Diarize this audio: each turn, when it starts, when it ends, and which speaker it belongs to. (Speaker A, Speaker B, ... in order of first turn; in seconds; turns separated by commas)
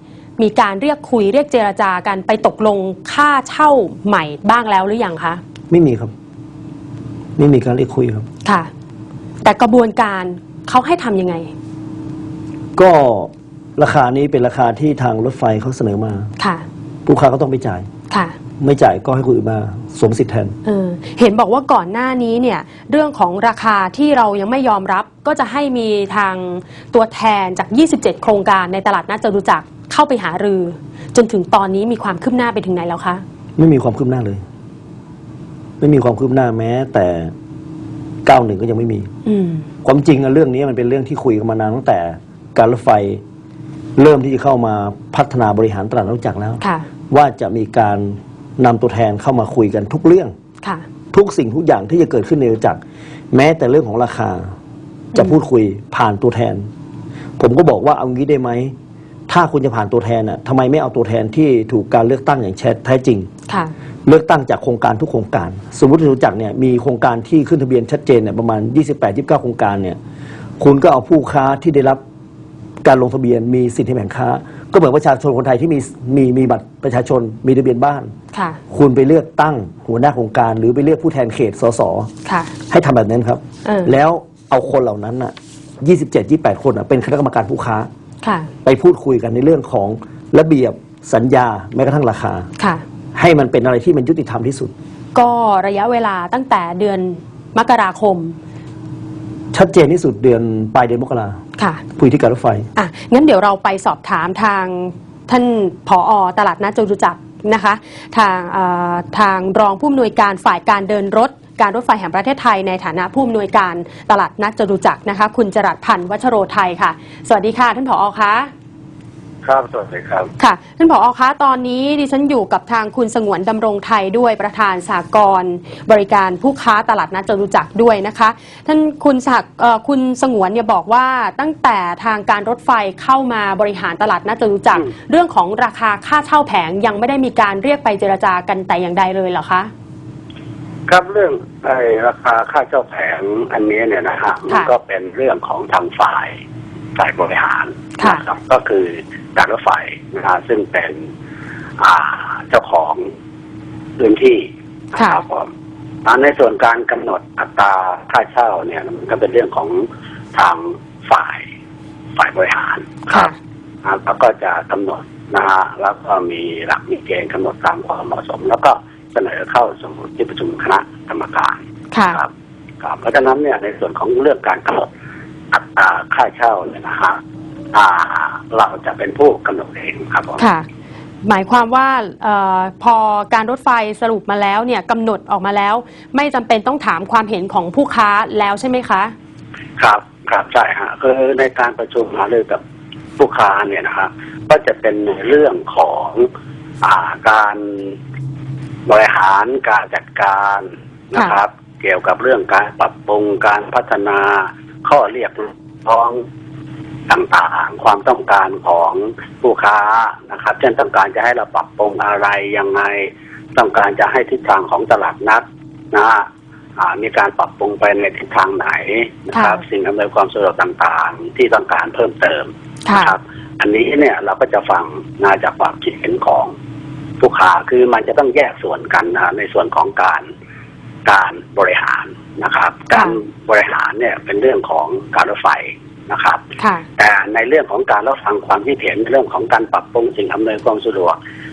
Speaker A: 0.4-5.4, Speaker B: 5.7-6.1, Speaker B: 7.4-8.3, Speaker A: 8.4-8.7, Speaker A: 9.4-11.5, Speaker B: 12.8-16.3, Speaker A: 16.4-16.6, Speaker B: 17.1-17.9, Speaker B: 18.6-20.5, Speaker A: 20.6-33.2, Speaker B: 33.6-34.4, Speaker B: 35.8-37.3, Speaker B: 38.2-39.1, Speaker A: 39.3-39.7, Speaker B: 39.8-43.2, Speaker B: 44.0-50.3, Speaker A: 46.6-46.9, Speaker B: 51.1-52.8, Speaker B: 53.3-54.5, Speaker B: 55.1-56.7, Speaker B: 57.4-58.7, Speaker B: 59.3-63.3, Speaker A: 63.5-63.7, Speaker B: 64.0-70.0, Speaker B: 70.6-72.0, Speaker B: 72.8-78.1, Speaker A: 78.3-78.6, Speaker B: 78.7-82.1, Speaker A: 82.2-82.5, Speaker B: 82.7-87.9, Speaker A: 83.7-83.9, Speaker A: 88.2-88.5, Speaker B: 88.7-92.5, Speaker B: 93.2-94.7, Speaker A: 95.2-98.4, Speaker B: 99.5-101.4, Speaker A: 101.6-101.8, Speaker B: 102.0-102.7, Speaker A: 102.8-118.5, Speaker C: 119.5-120.3, Speaker A: 120.4-139.7, Speaker C: 140.9-146.4, Speaker C: 147.0-151.1, Speaker C: 151.8-153.1, Speaker C: 154.0-155.5, Speaker A: 155.0-155.2, Speaker C: 156.1-161.4, Speaker C: 162.2-163.3, Speaker A: 163.1-163.4, Speaker C: 163.8-172.3, Speaker A: 171.9-172.2, Speaker C: 172.8-174.9, Speaker C: 175.5-177.2, Speaker C: 177.7-180.4, Speaker A: 180.4-180.7, Speaker A: 181.2-189.1, Speaker C: 189.8-192.6, Speaker C: 193.2-196.3, Speaker C: 196.8-197.9, Speaker C: 198.9-206.2, Speaker C: 207.1-216.3, Speaker C: 216.8-226.5, Speaker A: 219.3-219.6, Speaker A: 222.9-223.2, Speaker C: 227.2-230.3, Speaker C: 231.1-236.4, Speaker A: 232.9-233.2, Speaker A: 236.6-236.8, Speaker C: 237.0-241.2